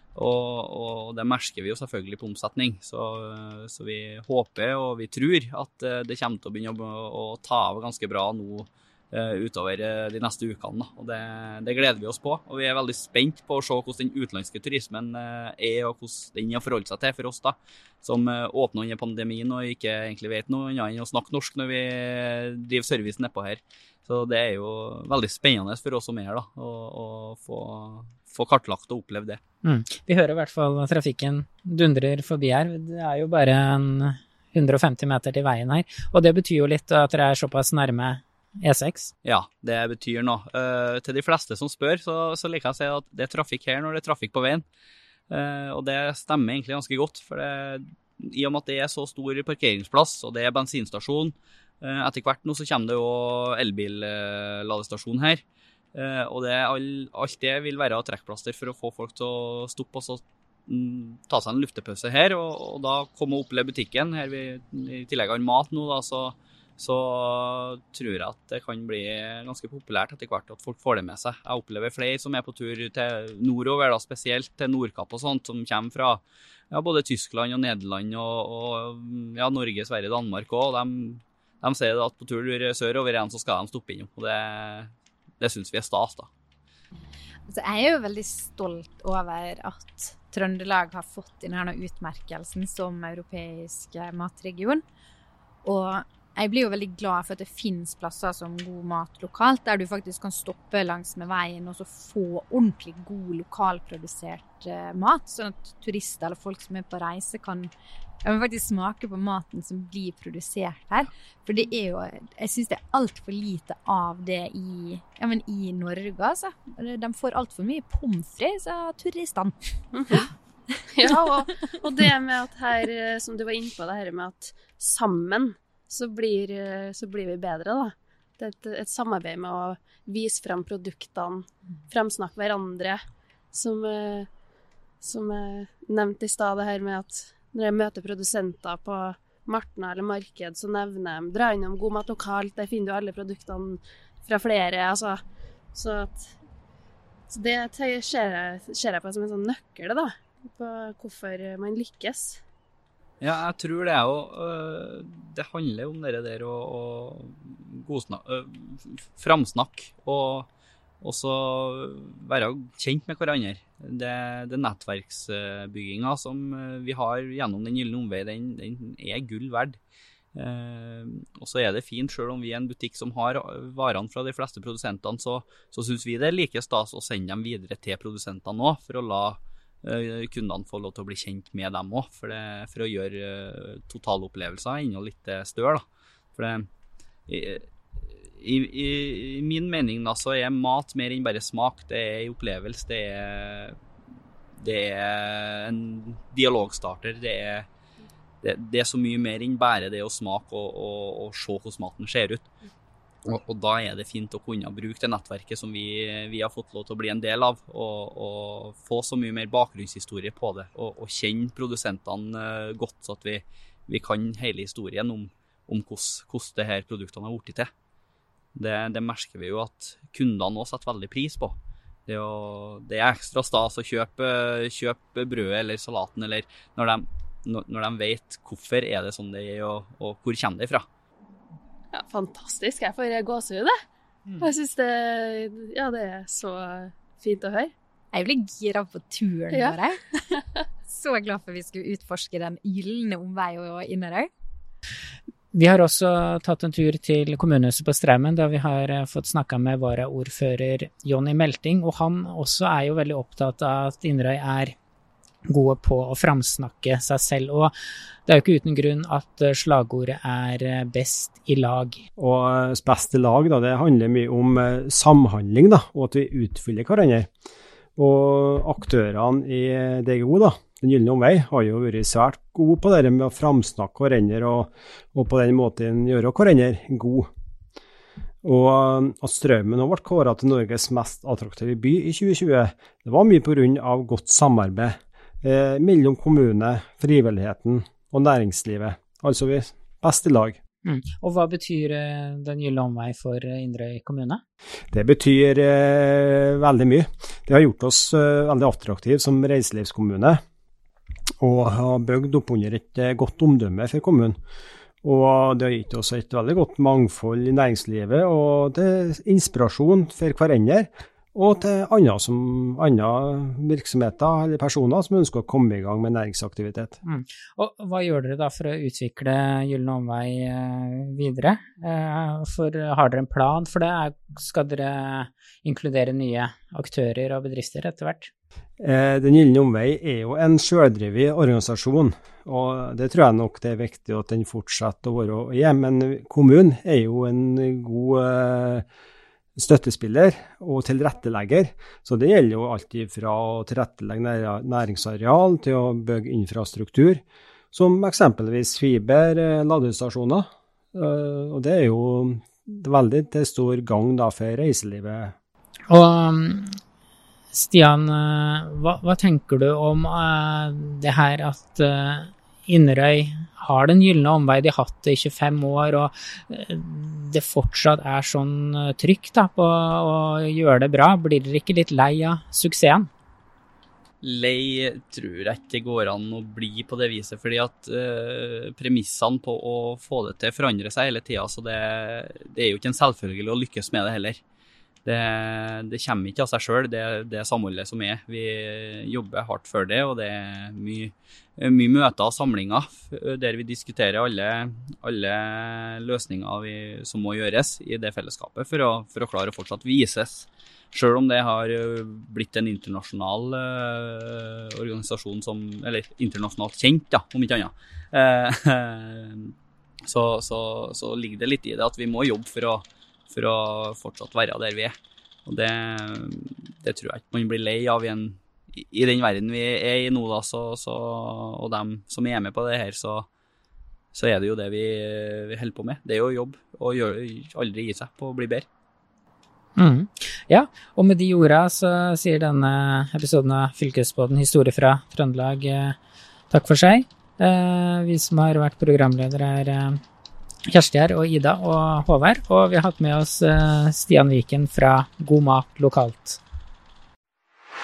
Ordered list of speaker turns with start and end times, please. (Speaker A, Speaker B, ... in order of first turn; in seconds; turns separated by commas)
Speaker A: 0.1-29.4, Speaker B: 29.6-39.1, Speaker A: 39.2-44.6, Speaker A: 45.3-55.4, Speaker A: 55.9-86.3, Speaker C: 87.5-94.8, Speaker C: 95.6-107.7, Speaker C: 108.2-119.6, Speaker D: 119.9-120.3, Speaker D: 120.9-133.0, Speaker D: 133.5-134.3, Speaker D: 135.0-145.2, Speaker D: 145.7-146.3, Speaker D: 147.3-152.4, Speaker A: 153.2-160.5, Speaker A: 161.0-169.8, Speaker A: 170.3-185.8, Speaker A: 186.3-186.7, Speaker A: 187.3-193.8, Speaker A: 194.6-197.7, Speaker A: 198.4-202.5, Speaker A: 203.2-217.7, Speaker A: 218.5-230.8, Speaker D: 231.9-233.8, Speaker D: 234.4-237.7, Speaker C: 238.1-244.3, Speaker D: 239.5-239.8, Speaker B: 245.5-254.8, Speaker B: 255.5-257.7, Speaker B: 258.2-262.0, Speaker E: 262.2-267.3, Speaker E: 268.0-277.3, Speaker E: 278.4-290.6, Speaker B: 290.8-294.4, Speaker E: 294.9-300.4, Speaker E: 301.4-304.4, Speaker E: 305.0-317.0, Speaker B: 317.0-328.3, Speaker E: 328.8-338.9, Speaker E: 339.6-355.3, Speaker B: 355.9-356.8, Speaker B: 357.5-373.1, Speaker A: 374.2-384.4, Speaker A: 385.0-409.5, Speaker A: 410.0-423.3, Speaker A: 424.1-428.6, Speaker B: 429.8-436.0, Speaker B: 436.5-440.0, Speaker B: 440.7-446.4